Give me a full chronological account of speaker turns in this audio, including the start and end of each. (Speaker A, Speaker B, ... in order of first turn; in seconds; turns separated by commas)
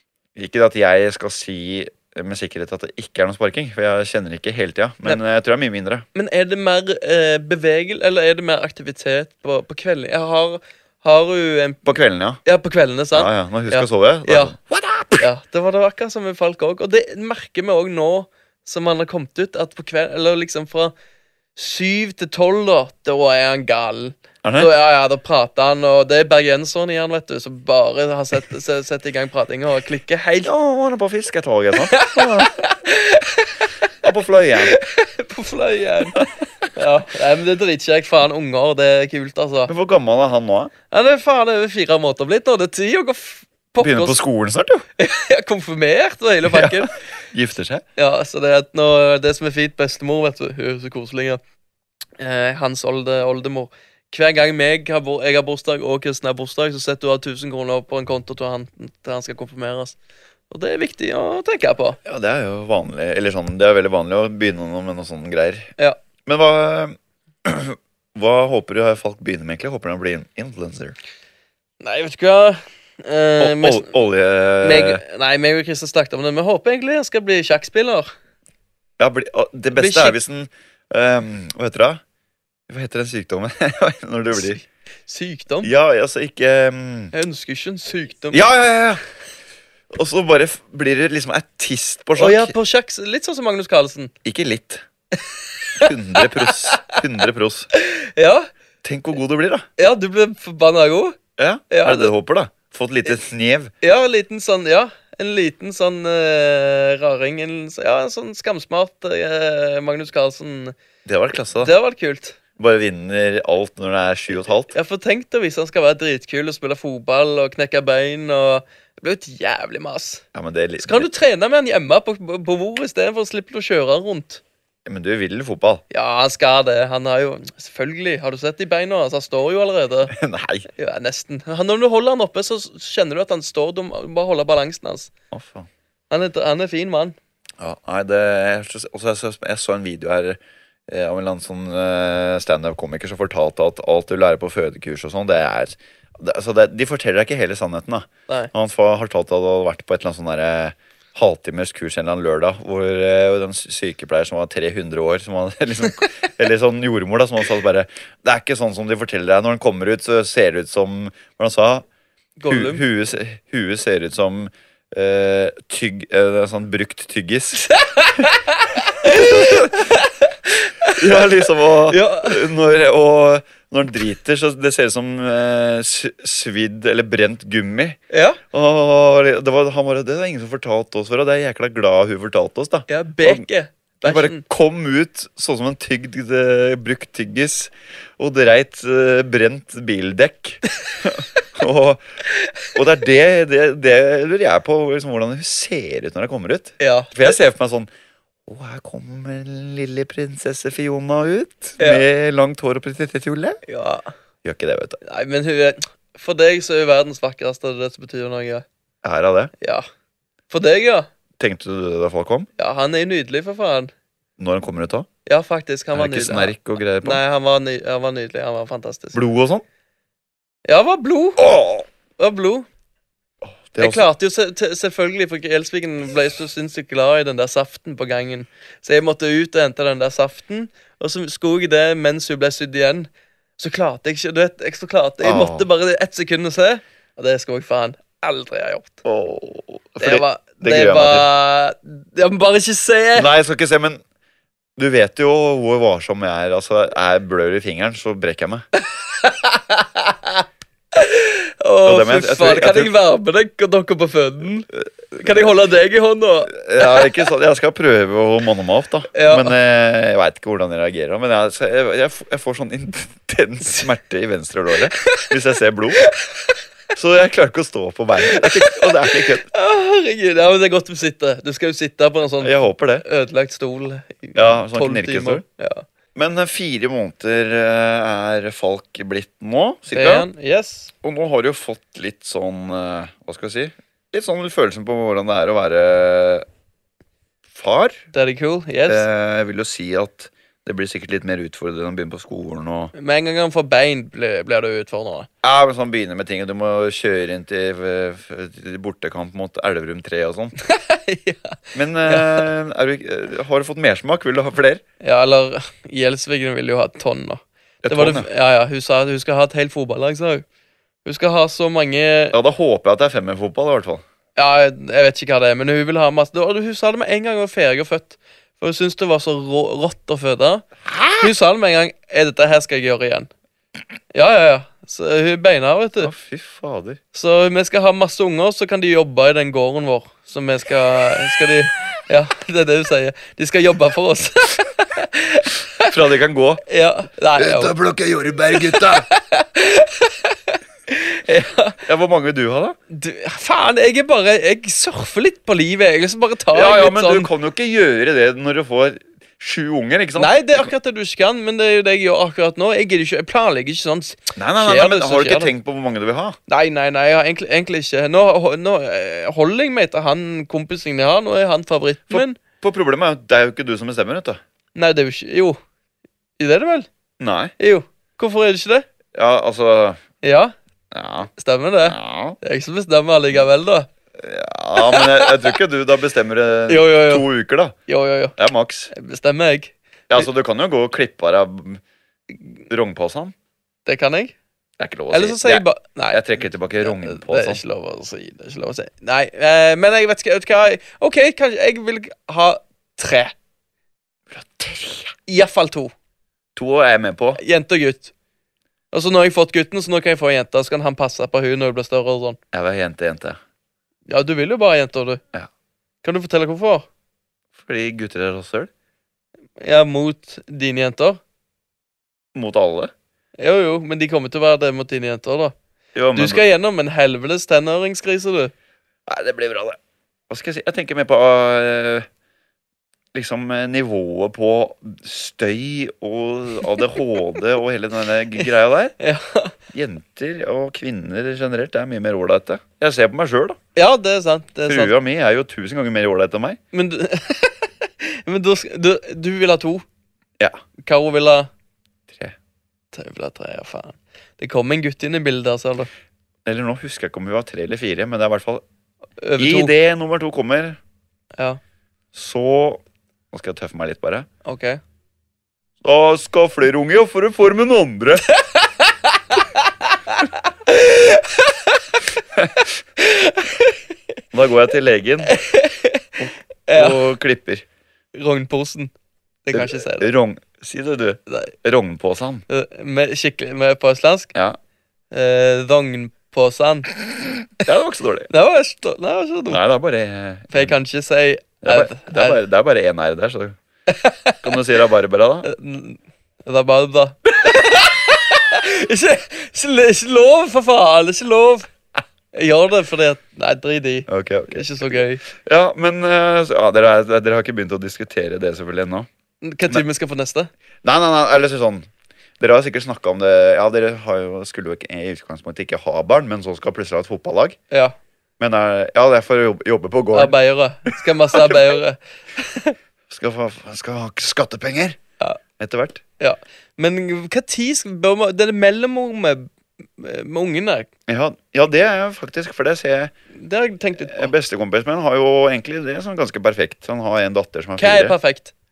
Speaker A: 0.3-6.0, Speaker B: 6.1-11.9, Speaker A: 11.8-12.4, Speaker B: 12.4-14.5, Speaker A: 13.1-15.3, Speaker B: 15.2-20.9, Speaker B: 21.6-30.5, Speaker A: 24.4-24.7, Speaker A: 30.4-32.6, Speaker B: 31.8-33.7, Speaker A: 34.0-34.8, Speaker B: 34.6-39.7, Speaker A: 39.7-40.7, Speaker B: 40.9-44.2, Speaker A: 43.8-44.9, Speaker B: 45.0-47.0, Speaker A: 46.4-47.8, Speaker B: 48.0-51.4, Speaker B: 52.2-60.0, Speaker B: 60.5-62.0, Speaker A: 62.0-65.7, Speaker A: 66.2-71.0, Speaker B: 71.8-73.9, Speaker A: 73.4-75.0, Speaker B: 74.6-78.1, Speaker A: 79.0-82.0, Speaker B: 79.7-80.2, Speaker A: 82.7-84.6, Speaker B: 84.3-85.7, Speaker A: 85.6-87.1, Speaker B: 87.1-88.5, Speaker A: 88.3-89.0, Speaker A: 89.9-92.5, Speaker B: 92.2-94.1, Speaker A: 94.2-94.8, Speaker B: 95.2-97.0, Speaker A: 95.8-97.7, Speaker B: 97.7-98.5, Speaker A: 98.8-99.7, Speaker B: 99.8-101.2, Speaker A: 101.4-103.7, Speaker B: 101.7-102.1, Speaker B: 103.8-110.8, Speaker A: 111.0-111.7, Speaker B: 111.6-112.4, Speaker A: 112.6-114.7, Speaker B: 114.7-120.2, Speaker A: 120.3-121.1, Speaker B: 120.8-124.4, Speaker A: 124.8-125.8, Speaker B: 125.9-130.1, Speaker A: 130.1-130.7, Speaker B: 130.8-135.1, Speaker A: 135.3-135.7, Speaker B: 136.1-137.2, Speaker A: 137.6-161.8, Speaker B: 162.4-162.8, Speaker A: 162.5-168.2, Speaker B: 167.7-172.4, Speaker A: 169.0-169.9, Speaker A: 170.9-178.0, Speaker B: 178.1-178.4, Speaker A: 178.5-183.4, Speaker B: 182.9-184.4, Speaker A: 184.0-192.0, Speaker A: 192.7-197.9, Speaker B: 196.8-197.3, Speaker A: 198.5-203.6, Speaker B: 201.8-202.0, Speaker B: 203.7-204.1, Speaker A: 204.4-205.0, Speaker B: 205.0-208.6, Speaker A: 209.0-209.5, Speaker B: 209.6-209.8, Speaker B: 210.5-211.1, Speaker A: 211.4-212.5, Speaker B: 212.6-213.9, Speaker A: 214.4-215.1, Speaker B: 215.2-219.2, Speaker A: 215.9-217.2, Speaker A: 219.1-219.6, Speaker B: 220.7-221.5, Speaker A: 221.4-221.8, Speaker B: 222.2-222.7, Speaker A: 223.4-224.1, Speaker B: 223.8-239.0, Speaker A: 235.2-235.7, Speaker A: 239.0-241.3, Speaker B: 240.0-243.3, Speaker A: 243.2-244.0, Speaker A: 244.8-248.7, Speaker B: 248.7-257.1, Speaker A: 251.8-252.9, Speaker A: 254.7-255.5, Speaker A: 256.5-266.1, Speaker B: 259.1-259.5, Speaker B: 264.9-265.3, Speaker B: 266.0-266.5, Speaker A: 266.9-269.5, Speaker B: 268.2-275.9, Speaker A: 272.4-273.0, Speaker A: 274.3-275.4, Speaker A: 276.1-280.3, Speaker B: 279.9-280.9, Speaker A: 281.0-286.4, Speaker A: 287.5-288.0, Speaker B: 288.1-289.1, Speaker A: 288.9-292.9, Speaker B: 292.9-295.3, Speaker A: 295.4-300.5, Speaker B: 300.6-302.4, Speaker A: 301.7-304.8, Speaker B: 305.0-310.4, Speaker A: 307.8-308.3, Speaker B: 311.0-312.3, Speaker A: 312.3-314.0, Speaker B: 314.4-320.7, Speaker A: 320.8-321.3, Speaker B: 321.2-323.3, Speaker B: 324.1-326.1, Speaker A: 326.0-327.0, Speaker B: 327.1-335.9, Speaker A: 335.8-336.6, Speaker B: 336.6-337.8, Speaker A: 337.4-339.1, Speaker B: 338.5-341.8, Speaker A: 341.9-342.8, Speaker B: 342.9-347.3, Speaker A: 346.5-350.7, Speaker B: 350.1-355.5, Speaker A: 354.4-356.4, Speaker B: 356.5-362.4, Speaker A: 362.1-364.4, Speaker B: 364.8-365.6, Speaker B: 366.4-366.9, Speaker A: 367.2-367.5, Speaker B: 367.6-368.9, Speaker A: 369.1-370.0, Speaker B: 370.2-370.5, Speaker A: 370.9-371.3, Speaker B: 371.3-373.9, Speaker A: 371.8-372.4, Speaker A: 374.2-377.8, Speaker B: 374.8-375.6, Speaker B: 376.7-377.3, Speaker B: 377.9-378.4, Speaker A: 378.4-378.9, Speaker B: 378.9-380.2, Speaker A: 380.1-381.8, Speaker A: 382.7-383.3, Speaker B: 383.9-384.3, Speaker A: 384.8-387.6, Speaker B: 385.1-386.2, Speaker B: 386.8-393.3, Speaker A: 394.3-395.1, Speaker B: 395.3-395.9, Speaker A: 396.6-397.4, Speaker B: 397.3-398.1, Speaker B: 398.9-402.4, Speaker A: 402.5-403.4, Speaker B: 404.1-405.2, Speaker B: 406.0-406.9, Speaker A: 407.6-408.7, Speaker B: 409.6-411.2, Speaker A: 412.3-412.9, Speaker B: 413.4-415.5, Speaker A: 415.9-416.4, Speaker B: 416.1-418.5, Speaker A: 419.1-419.8, Speaker A: 420.3-422.1, Speaker A: 423.1-428.9, Speaker B: 429.0-429.5, Speaker A: 429.7-433.6, Speaker B: 433.7-434.9, Speaker A: 434.7-436.6, Speaker B: 436.7-439.8, Speaker B: 440.8-441.5, Speaker A: 442.1-442.4, Speaker B: 442.9-445.9, Speaker A: 446.4-448.6, Speaker B: 449.2-449.7, Speaker A: 449.4-450.8, Speaker A: 452.1-454.3, Speaker B: 454.4-454.8, Speaker A: 455.8-458.2, Speaker B: 458.3-461.8, Speaker A: 462.4-462.6, Speaker B: 463.0-463.8, Speaker A: 464.3-465.4, Speaker B: 465.2-467.0, Speaker A: 466.2-467.6, Speaker B: 468.1-468.9, Speaker B: 469.4-470.1, Speaker A: 469.5-472.4, Speaker B: 472.5-474.3, Speaker B: 475.1-476.9, Speaker A: 477.6-478.3, Speaker B: 478.3-479.6, Speaker A: 479.5-480.8, Speaker B: 480.5-482.4, Speaker A: 481.6-483.6, Speaker B: 483.9-484.4, Speaker A: 484.4-485.5, Speaker B: 485.4-491.7, Speaker B: 492.3-495.2, Speaker A: 494.1-499.1, Speaker B: 499.4-500.5, Speaker A: 500.8-501.9, Speaker A: 502.4-507.6, Speaker A: 508.4-510.4, Speaker B: 510.1-512.8, Speaker A: 511.3-511.7, Speaker A: 513.1-515.0, Speaker A: 515.6-516.0, Speaker B: 516.2-520.9, Speaker A: 521.1-523.1, Speaker B: 523.3-524.3, Speaker A: 524.0-528.1, Speaker B: 527.8-528.5